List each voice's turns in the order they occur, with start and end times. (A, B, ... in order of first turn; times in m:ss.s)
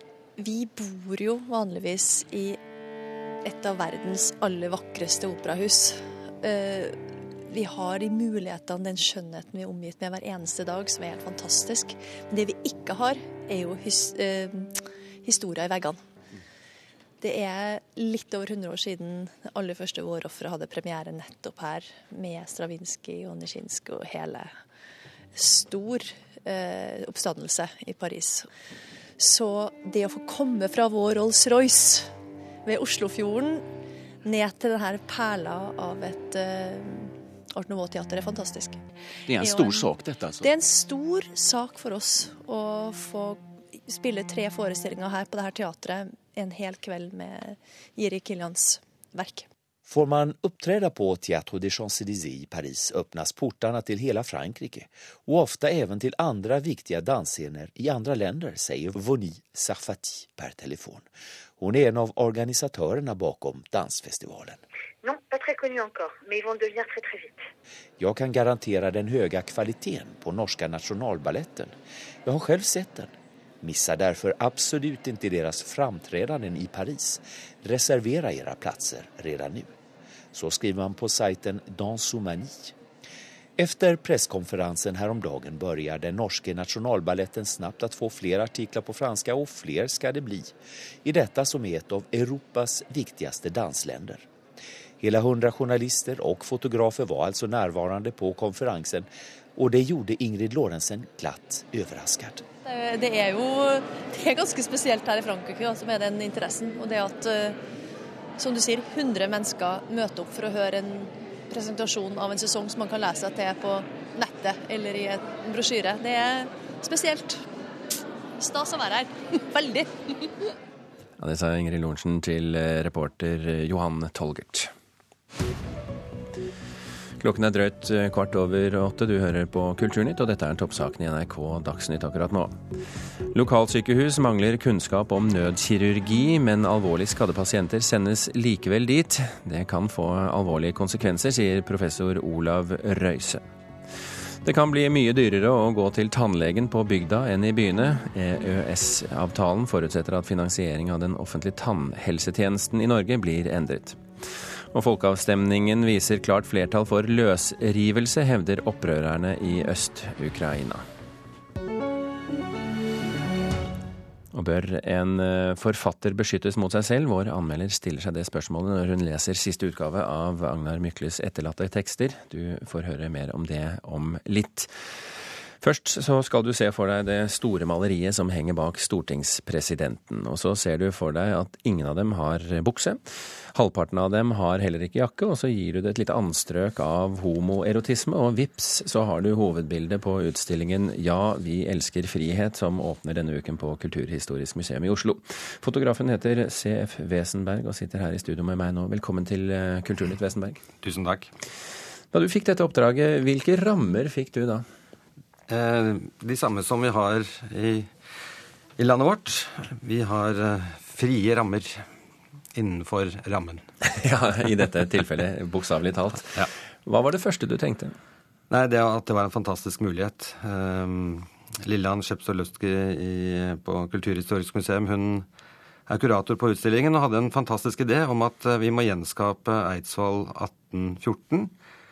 0:00.4-0:02.6 A
0:03.4-0:16.0 A
0:17.2-0:24.5 A
0:25.4-0:28.5 A
0:29.2-0:32.1 A
0:32.6-0:33.6 A
0:34.2-0:49.5 A
0:39.3-0:40.4 B
0:49.9-1:01.0 C
1:01.6-1:04.6 C
1:05.0-1:07.4 B
1:08.0-1:11.7 C
1:12.2-1:19.7 C
1:20.3-1:22.8 C
1:23.6-1:34.2 C
1:35.0-1:42.4 C
1:42.6-1:47.6 A
1:48.4-1:57.4 A
1:58.4-2:00.3 A
2:01.2-2:04.7 D
2:07.2-2:12.6 D
2:13.3-2:23.4 D
2:24.4-2:40.8 D
2:44.3-2:54.7 D
2:55.6-3:03.0 D
3:03.5-3:20.6 D
3:20.8-3:21.3 E
3:22.1-3:24.6 D
3:25.5-3:27.9 E
3:28.8-3:31.8 E
3:32.5-3:33.7 E
3:33.9-3:37.9 D
3:38.5-3:45.2 E
3:45.9-3:51.5 E